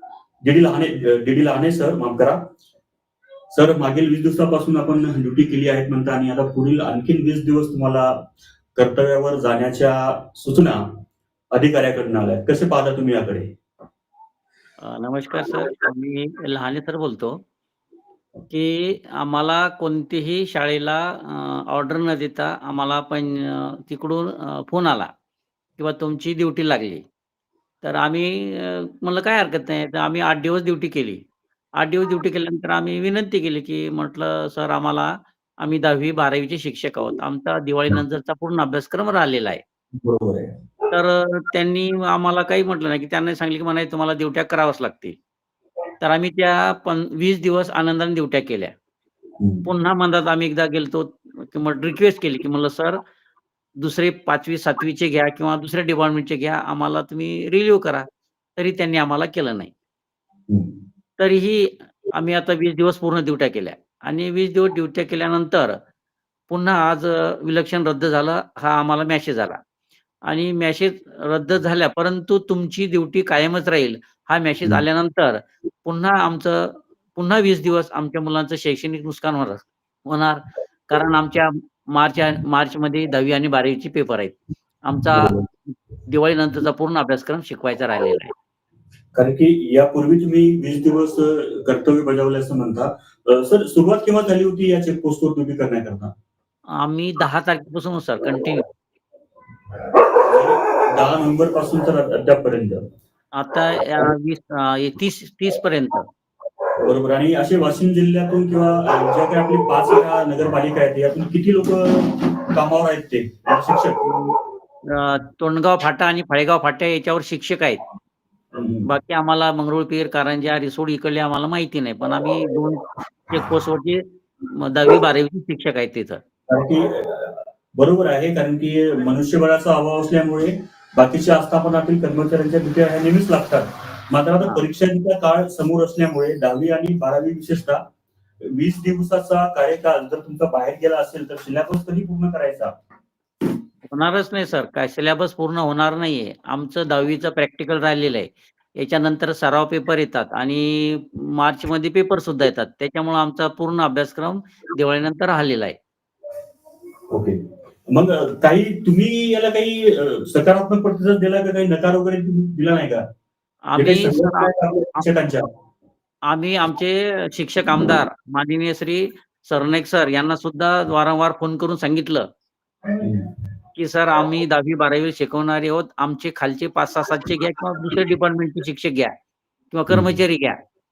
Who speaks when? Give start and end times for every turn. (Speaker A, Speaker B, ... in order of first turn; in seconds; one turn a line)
Speaker A: 0.4-2.5
Speaker A: 3.5-11.0
Speaker A: 11.5-13.5
Speaker B: 14.8-17.4
Speaker B: 18.5-25.1
Speaker B: 25.8-27.0
Speaker B: 27.8-31.2
Speaker B: 31.8-39.6
Speaker A: 39.9-40.6
Speaker B: 40.9-45.2
Speaker B: 46.0-48.7
Speaker A: 49.4-49.6
Speaker B: 49.6-53.0
Speaker B: 53.8-59.7
Speaker B: 61.2-65.8
Speaker B: 66.5-69.6
Speaker B: 70.2-85.4
Speaker A: 85.1-85.5
Speaker B: 86.0-88.3
Speaker A: 89.1-96.1
Speaker B: 96.7-98.7
Speaker A: 99.9-102.8
Speaker B: 103.3-106.1
Speaker A: 106.8-114.0
Speaker B: 114.1-114.3
Speaker B: 114.8-117.8
Speaker A: 118.5-118.9
Speaker B: 118.8-126.2
Speaker A: 126.5-137.8
Speaker A: 138.4-142.7
Speaker B: 143.9-155.8
Speaker A: 157.1-163.0
Speaker B: 163.7-164.5
Speaker A: 163.8-165.5
Speaker B: 166.3-172.3
Speaker A: 173.0-173.3
Speaker B: 173.8-179.1
Speaker B: 179.7-180.6
Speaker A: 179.9-180.2